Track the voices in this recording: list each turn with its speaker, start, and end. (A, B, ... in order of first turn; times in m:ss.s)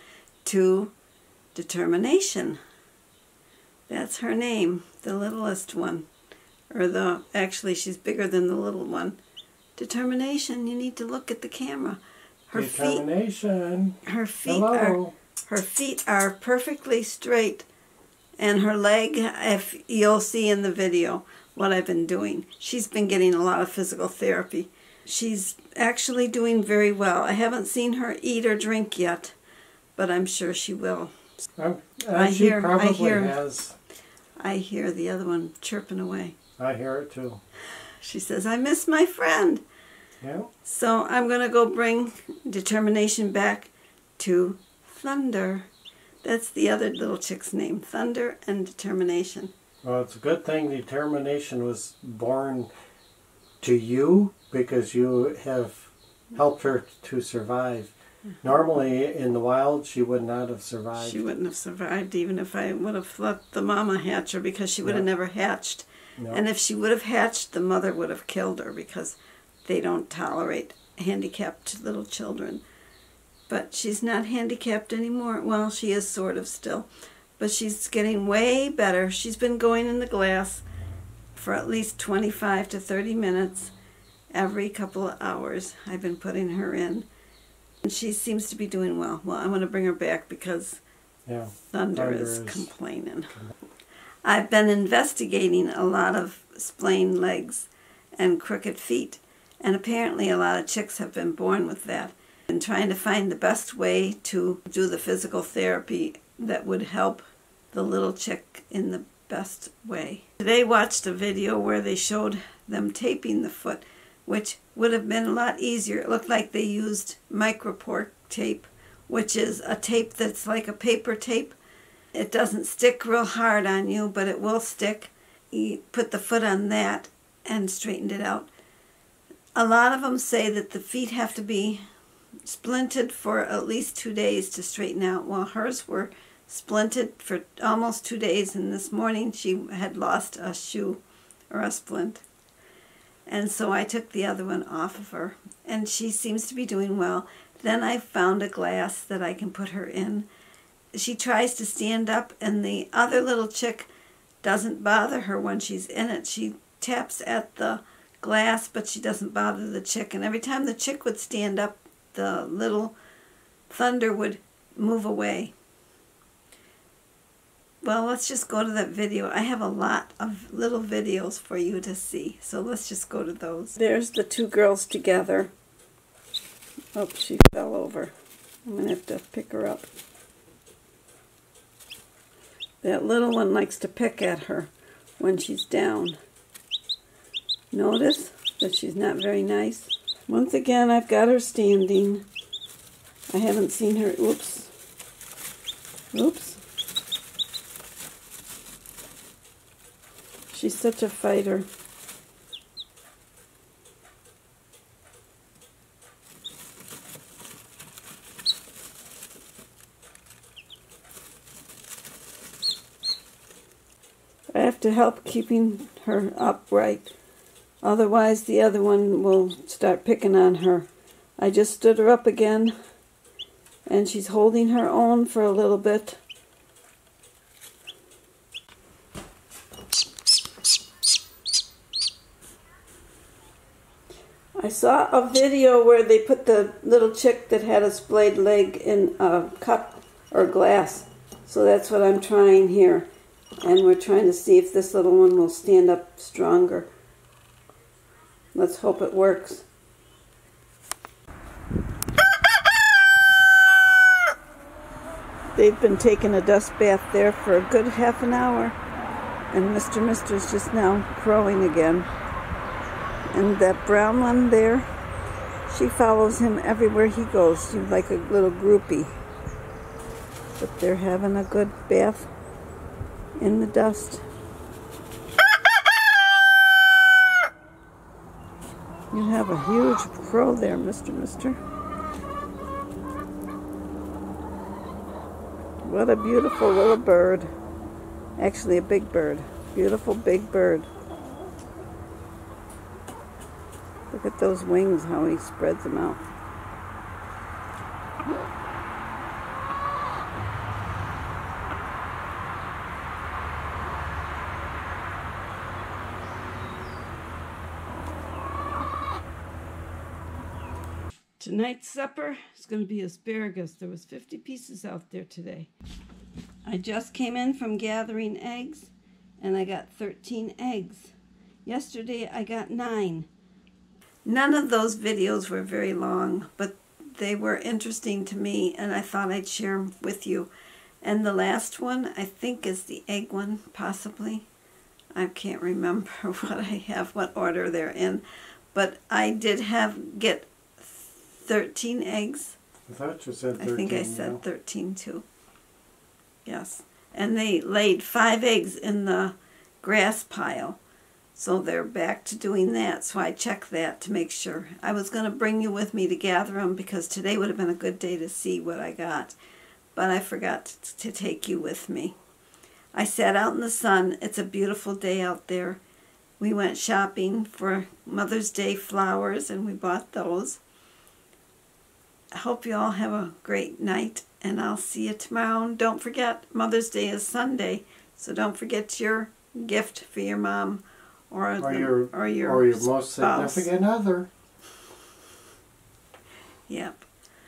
0:00.4-0:00.9 A
0:01.5-0:02.6 A
0:03.9-0:06.1 A
0:06.7-0:09.2 A
0:09.8-0:13.0 A
0:12.5-0:15.1 B
0:14.0-0:17.7 A
0:18.4-0:29.4 A
0:30.0-0:31.1 A
0:31.6-0:33.8 B
0:32.1-0:33.4 A
0:34.4-0:36.4 A
0:36.6-0:37.4 B
0:38.0-0:39.6 A
0:40.2-0:40.5 B
0:40.6-0:45.7 A
0:46.2-0:49.5 A
0:49.8-0:52.7 B
0:53.6-1:01.2 B
1:01.0-1:12.6 A
1:13.5-1:20.6 A
1:21.3-1:23.7 A
1:24.3-1:27.0 A
1:27.8-1:30.8 A
1:31.2-1:32.7 B
1:31.7-1:33.4 A
1:34.2-2:01.6 A
2:02.1-2:08.5 A
2:09.6-2:11.8 A
2:12.4-2:22.2 A
2:23.3-2:30.3 A
2:30.9-2:33.9 A
2:34.4-2:43.0 A
2:43.7-2:45.5 A
2:47.8-2:55.5 A
2:56.9-2:58.1 A
2:58.6-2:59.9 A
3:02.8-3:06.2 A
3:07.7-3:12.3 A
3:13.3-3:14.7 A
3:16.1-3:16.6 A
3:20.5-3:21.7 A
3:34.5-3:37.1 A
3:37.8-3:42.7 A
3:43.9-3:46.2 A
3:54.6-4:03.1 A
4:03.6-4:06.9 A
4:08.5-4:09.7 A
4:15.5-4:18.8 A
4:19.5-4:22.1 A
4:23.3-4:24.9 A
4:25.7-4:29.1 A
4:30.6-4:32.3 A
4:33.4-4:34.2 A
4:39.1-4:41.6 A
4:45.8-4:47.5 A
4:48.4-4:50.9 A
4:54.1-4:56.2 A
5:11.4-5:15.7 A
5:16.6-5:21.1 A
5:21.6-5:23.3 A
5:24.2-5:30.5 A
5:31.0-5:34.5 A
5:35.2-5:42.6 A
5:42.9-5:44.4 B
5:43.6-5:45.2 A
5:46.4-5:50.8 A
5:51.3-5:59.4 A
5:59.9-6:02.2 A
6:02.9-6:05.8 A
6:06.4-6:10.6 A
6:12.3-6:23.7 A
6:21.6-6:24.3 B
6:26.7-6:27.0 A